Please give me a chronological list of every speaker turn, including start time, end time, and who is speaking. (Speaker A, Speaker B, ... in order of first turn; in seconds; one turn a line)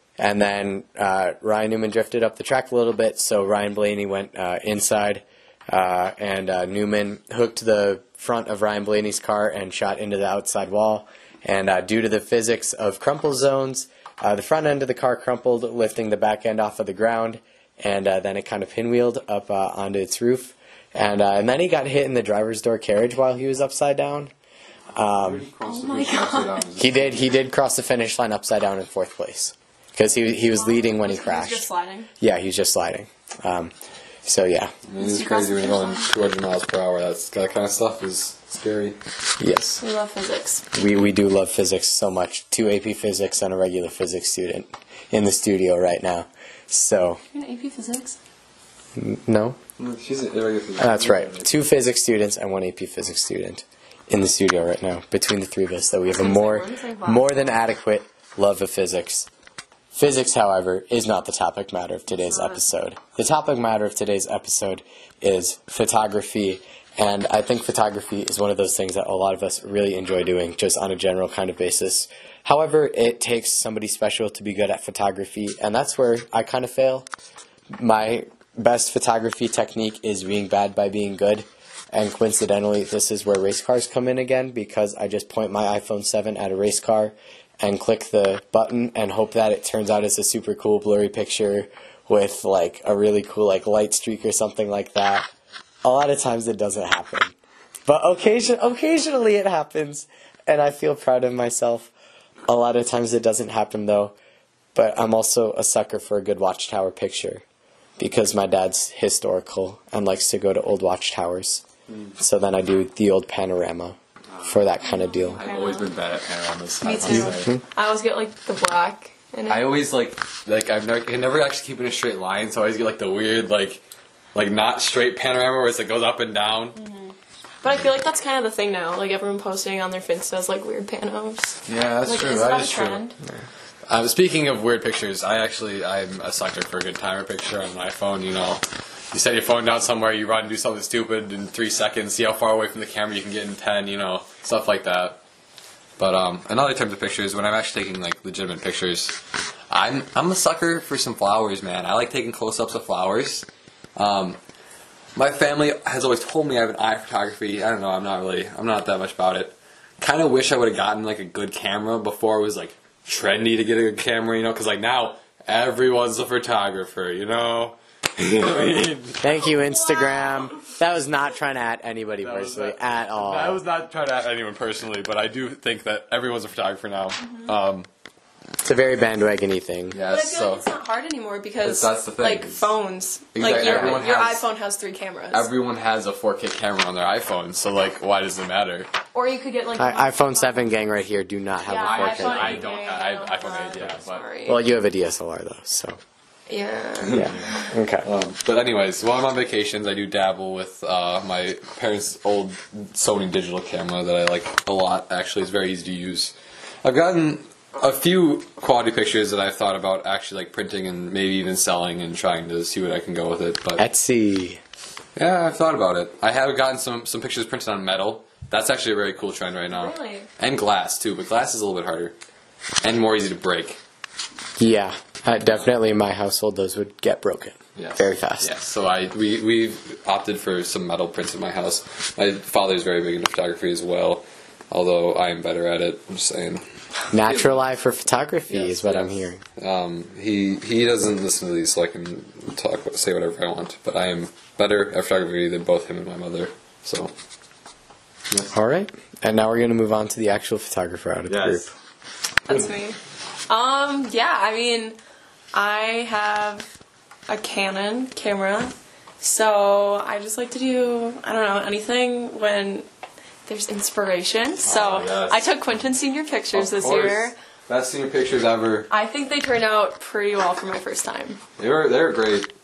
Speaker A: 0.2-24.3
Speaker A: 24.9-25.5
Speaker B: 25.1-27.4
Speaker C: 25.6-26.7
Speaker A: 26.8-31.6
Speaker C: 30.5-32.1
Speaker A: 32.2-33.7
Speaker A: 34.2-34.7
Speaker B: 34.9-39.0
Speaker C: 35.0-36.1
Speaker A: 39.4-39.8
Speaker C: 39.8-40.6
Speaker A: 40.7-47.2
Speaker C: 47.3-48.2
Speaker A: 49.0-49.6
Speaker B: 49.8-51.5
Speaker A: 50.8-59.3
Speaker C: 56.1-57.5
Speaker A: 59.9-77.1
Speaker C: 62.1-62.6
Speaker A: 77.7-95.2
Speaker A: 95.8-97.3
Speaker A: 97.8-101.9
Speaker A: 102.5-104.1
Speaker A: 104.7-107.4
Speaker A: 108.0-111.6
Speaker A: 112.2-115.4
Speaker B: 114.4-114.6
Speaker C: 114.8-115.9
Speaker B: 115.3-117.5
Speaker C: 116.8-119.7
Speaker A: 117.0-117.6
Speaker B: 119.5-123.8
Speaker B: 124.3-126.8
Speaker C: 126.8-133.2
Speaker B: 131.7-133.0
Speaker B: 133.9-145.2
Speaker B: 146.0-149.2
Speaker B: 149.7-154.4
Speaker B: 155.2-169.2
Speaker A: 169.2-173.6
Speaker C: 169.2-170.7
Speaker B: 172.2-177.9
Speaker A: 178.6-180.0
Speaker B: 179.9-180.7
Speaker C: 180.1-185.5
Speaker B: 181.6-182.7
Speaker B: 183.3-184.4
Speaker B: 185.3-188.9
Speaker C: 189.1-190.7
Speaker A: 189.8-192.7
Speaker C: 191.6-194.6
Speaker B: 191.8-194.2
Speaker A: 194.4-196.0
Speaker C: 196.5-197.7
Speaker A: 197.1-198.1
Speaker B: 198.0-213.8
Speaker A: 213.8-214.6
Speaker B: 215.2-222.1
Speaker C: 219.7-220.3
Speaker B: 222.8-223.8
Speaker A: 224.6-228.5
Speaker B: 227.8-236.6
Speaker A: 237.1-239.4
Speaker B: 238.5-247.1
Speaker A: 248.5-251.7
Speaker B: 251.3-251.7
Speaker C: 252.4-255.0
Speaker C: 255.5-256.7
Speaker C: 257.3-262.9
Speaker C: 263.4-267.3
Speaker B: 264.6-265.4
Speaker B: 266.5-268.9
Speaker C: 268.9-271.4
Speaker B: 271.6-272.5